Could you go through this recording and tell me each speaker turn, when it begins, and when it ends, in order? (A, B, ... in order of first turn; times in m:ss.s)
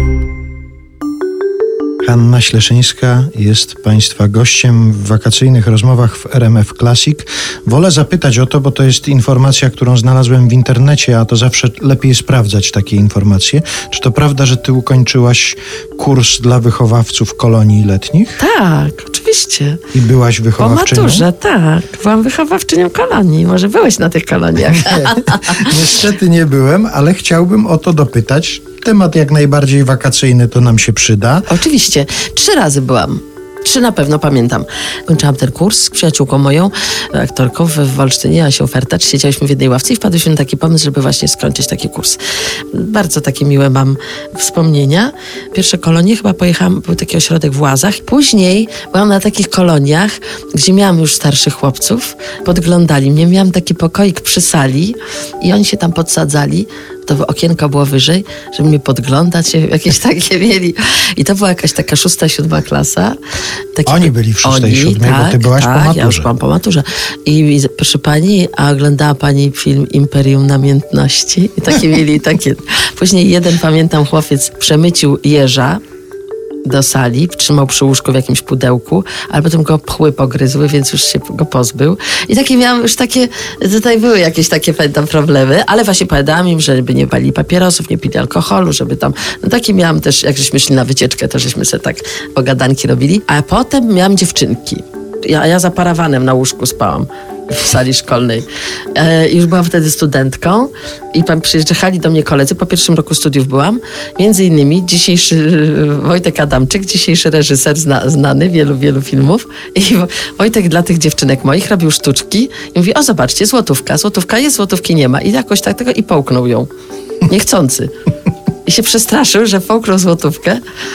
0:02.0-0:18.4 A
0:18.4-0:19.8 B
0:19.9-0:21.3 A
0:20.6-0:25.7 B
0:24.7-0:31.5 A
0:31.5-0:42.2 B
0:42.7-1:03.2 B
1:03.7-1:15.8 B
1:03.8-1:06.3 A
1:16.6-1:56.7 B
1:57.2-1:57.9 B
1:58.6-2:00.6 B